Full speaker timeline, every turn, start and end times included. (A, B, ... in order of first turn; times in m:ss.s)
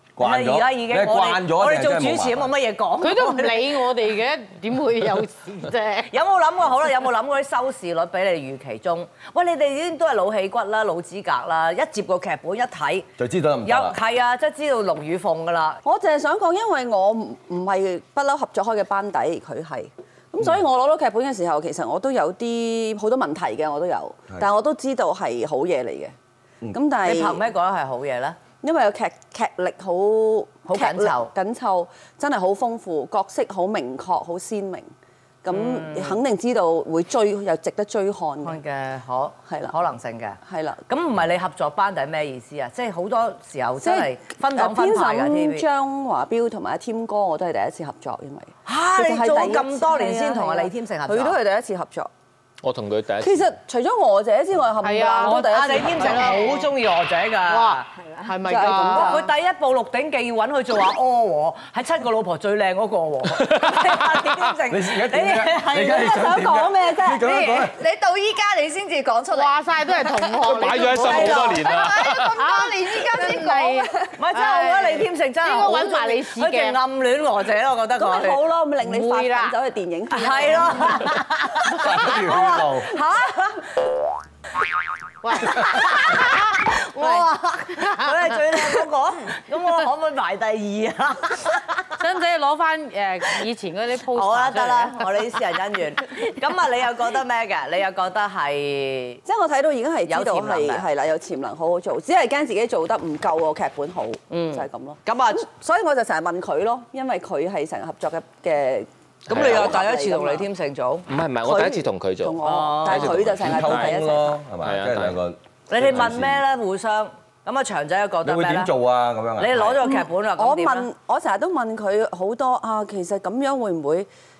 0:00.2-0:02.5 A
0:00.2-0:03.9 B
0:03.0-0:06.1 C
0:06.1-0:13.1 B
0:13.2-0:14.0 A
0:13.6-0:15.8 B
0:15.8-0:26.1 D
0:26.7-0:27.4 D
0:27.0-0:28.4 B
0:28.6-0:34.9 D
0:30.7-0:31.3 B
0:35.4-0:38.6 D
0:35.5-0:36.2 B
0:38.4-0:45.6 B
0:39.5-0:39.8 D
0:40.4-0:40.8 D
0:43.8-0:52.1 D
0:48.6-0:51.4 B
0:52.6-0:53.5 E
0:53.2-0:56.1 D
0:54.8-0:56.7 C
0:55.2-0:57.9 B
0:57.4-0:59.2 C
0:58.4-0:59.3 D
0:58.9-1:06.1 B
1:04.7-1:07.8 A
1:06.1-1:07.5 D
1:07.2-1:13.9 F
1:09.3-1:16.8 C
1:10.4-1:12.3 E
1:14.2-1:18.4 B
1:18.0-1:21.0 D
1:18.8-1:19.6 C
1:20.1-1:23.7 B
1:21.8-1:22.9 A
1:25.2-1:26.4 C
1:25.4-1:31.8 B
1:27.0-1:27.2 C
1:27.8-1:28.1 C
1:32.0-1:35.1 C
1:34.1-1:39.2 B
1:39.2-1:50.4 D
1:40.0-1:40.8 B
1:44.3-1:45.4 B
1:49.3-1:49.8 E
1:49.3-1:51.0 B
1:51.1-1:54.0 E
1:51.4-1:54.4 D
1:52.4-1:53.1 B
1:53.4-1:56.4 A
1:54.6-1:55.2 E
1:55.7-1:58.7 B
1:58.2-1:59.8 A
1:59.4-2:00.9 B
1:59.8-2:04.1 D